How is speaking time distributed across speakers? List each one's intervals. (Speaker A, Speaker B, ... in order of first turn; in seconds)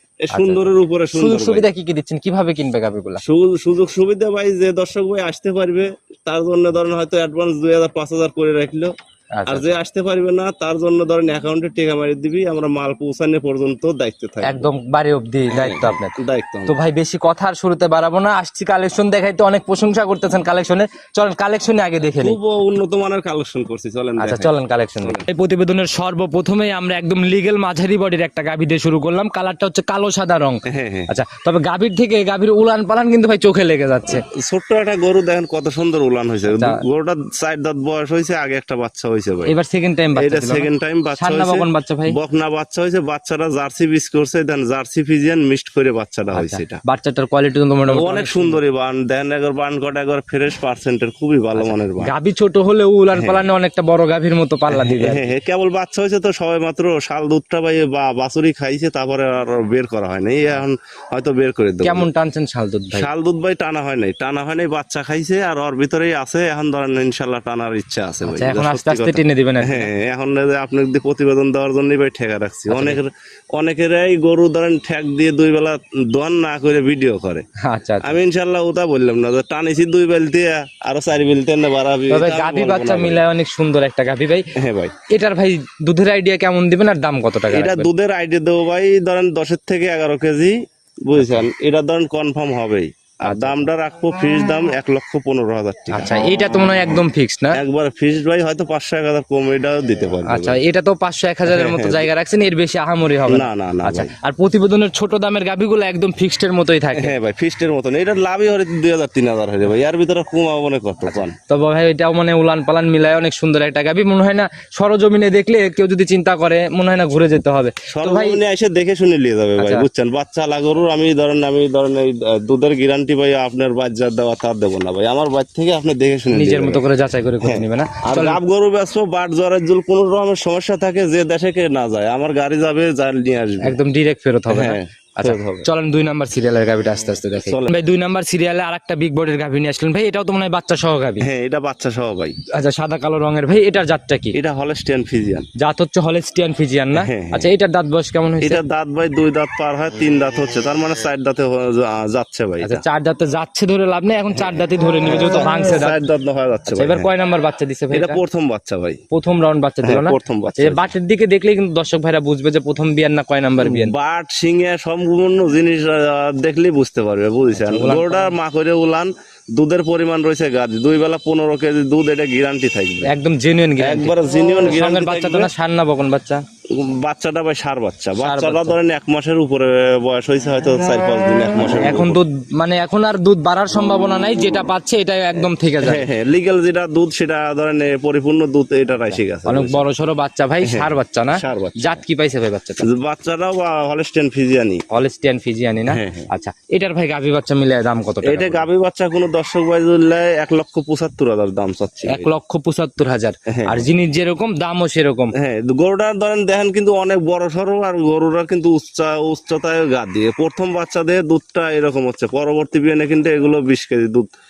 Speaker A: 0.2-1.6, 3.2-8.9, 9.5-14.7, 15.5-16.7, 22.2-25.2, 30.6-31.1, 34.1-39.5, 40.1-46.8, 47.9-52.1, 53.1-53.4, 54.7-62.1, 62.9-77.4, 78.0-83.2, 84.6-85.0, 87.5-97.0, 97.5-100.6, 101.5-102.1, 103.3-104.1, 106.9-111.3, 117.9-126.8, 127.4-133.8, 134.5-135.7, 137.4-137.7, 141.2-142.4, 144.3-145.4, 147.0-147.5, 148.4-152.8, 154.3-157.1, 157.9-159.0, 159.8-160.9, 163.6-173.1, 173.8-175.5, 176.7-182.2, 185.4-189.8, 190.6-192.0, 192.8-194.8, 195.9-196.3, 198.2-202.3, 203.5-203.9, 205.4-214.3
Speaker B: 0.3-3.2, 9.3-9.6, 14.4-22.4, 24.2-34.2, 36.5-36.8, 39.5-42.2, 46.3-48.6, 51.5-55.3, 61.8-63.1, 68.2-69.9, 72.7-73.0, 77.6-78.2, 82.1-84.5, 85.1-87.9, 91.2-91.5, 93.2-93.7, 95.9-97.6, 100.2-107.1, 111.1-118.4, 119.6-119.9, 126.3-128.4, 133.6-141.2, 142.5-144.3, 145.6-148.6, 152.6-156.0, 156.7-158.2, 159.1-163.9, 167.5-168.3, 173.0-176.4, 178.2-178.8, 181.6-186.1, 189.1-192.8, 194.9-198.7, 202.1-205.3